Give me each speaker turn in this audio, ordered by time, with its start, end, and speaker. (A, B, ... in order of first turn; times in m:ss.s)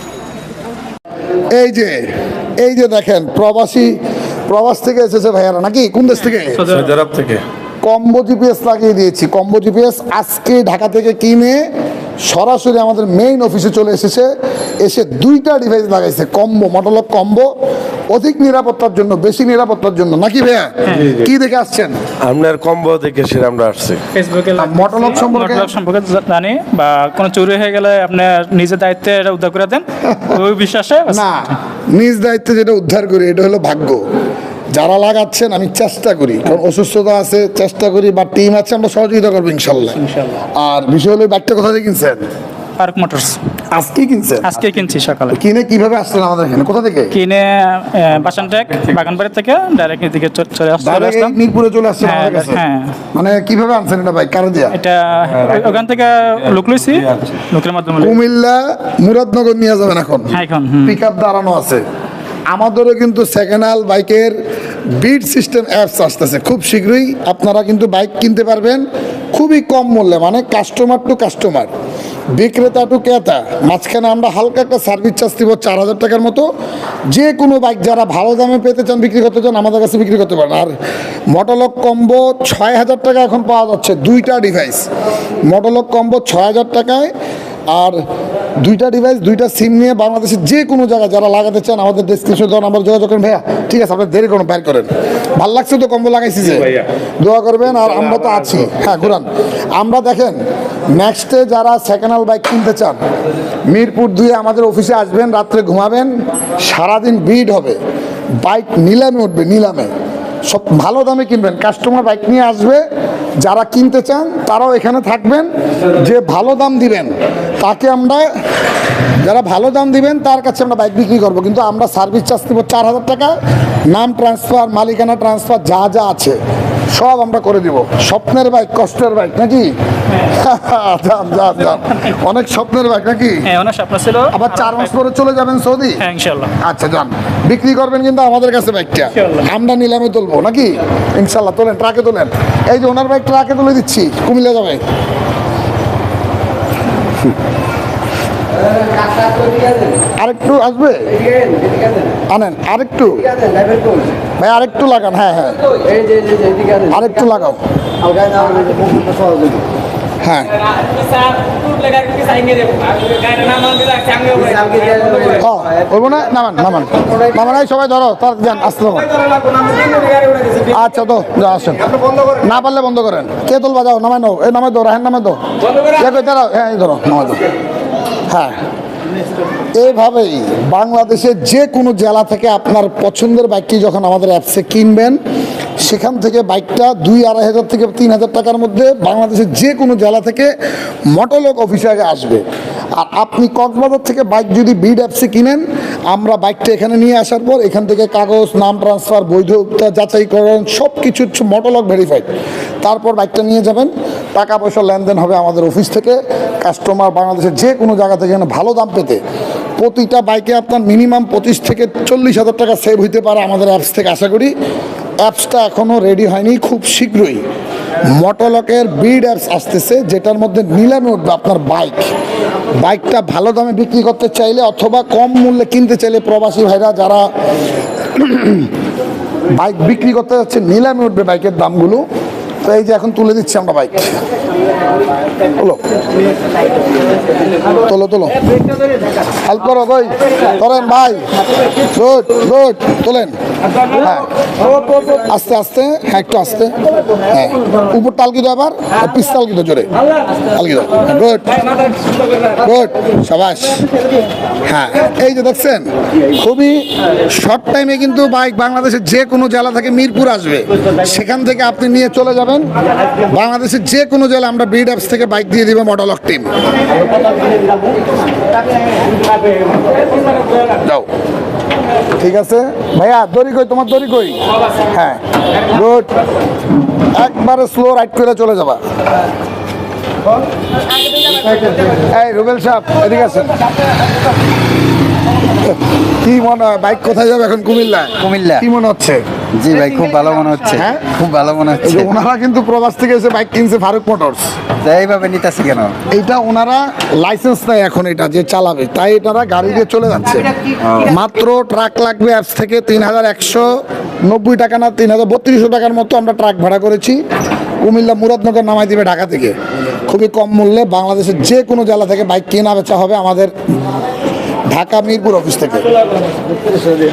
0:01.5-0:06.6 A
0:06.5-0:07.0 B
0:06.7-0:07.4 C
0:07.8-0:11.7 A
0:12.2-0:17.5 A
0:18.1-0:22.0 A
0:20.9-0:21.2 B
0:20.9-0:21.3 C
0:22.2-0:24.0 C
0:24.1-0:31.5 B
0:24.6-0:25.7 A
0:31.1-0:34.0 A
0:34.7-0:40.0 A
0:40.0-0:40.4 B
0:40.6-0:42.3 A
0:42.8-0:43.4 B
0:43.7-0:44.5 A
0:44.4-0:45.4 B
0:45.3-0:47.1 A
0:47.1-0:51.4 B
0:50.8-0:52.6 A
0:52.0-0:52.9 B
0:53.1-0:54.8 A
0:54.7-0:58.2 B
0:58.0-1:01.8 A
1:00.3-1:01.0 B
1:02.5-1:04.4 A
1:05.0-1:11.7 A
1:12.4-1:16.5 A
1:17.1-1:20.7 A
1:21.3-1:24.9 A
1:25.5-1:27.1 A
1:27.7-1:28.0 A
1:28.6-1:40.4 A
1:40.9-1:43.0 A
1:43.7-1:47.8 A
1:48.4-1:49.9 A
1:50.5-1:52.8 A
1:53.4-1:58.2 A
1:59.2-2:03.3 A
2:03.9-2:06.4 A
2:06.9-2:09.7 A
2:10.3-2:13.4 A
2:11.4-2:12.1 B
2:13.5-2:15.0 B
2:14.3-2:16.0 A
2:16.0-2:16.5 B
2:16.6-2:24.8 A
2:19.1-2:19.5 B
2:30.2-2:31.2 A
2:32.3-2:33.3 A
2:34.4-2:35.6 A
2:36.8-2:37.6 A
2:38.1-2:39.6 D
2:40.2-2:40.6 A
2:44.4-2:45.1 D
2:45.2-2:49.1 A
2:50.7-2:57.4 A
2:59.8-3:05.2 A
3:05.8-3:10.5 A
3:11.1-3:22.3 A
3:22.8-3:29.2 A
3:29.8-3:34.5 A
3:35.2-3:37.4 A
3:38.1-3:42.1 A
3:42.8-3:47.3 A
3:48.1-3:48.7 A
3:49.5-3:52.0 A
3:52.6-3:54.2 A
3:55.6-3:55.8 A
3:57.8-3:58.4 A
3:59.4-4:01.3 A
4:01.9-4:03.3 A
4:04.0-4:09.9 A
4:10.5-4:11.6 A
4:12.6-4:13.9 A
4:14.6-4:22.7 A
4:23.3-4:26.5 A
4:30.8-4:31.1 A
4:32.2-4:36.1 A
4:37.2-4:38.8 A
4:42.1-4:43.6 A
4:45.7-4:49.2 A
4:48.2-4:48.6 D
4:49.6-4:52.1 D
4:50.8-4:51.1 A
4:51.8-4:54.6 A
4:54.8-4:56.0 D
4:56.1-5:07.2 A
5:00.8-5:01.1 D
5:07.8-5:09.5 A
5:10.1-5:14.0 A
5:14.7-5:15.9 A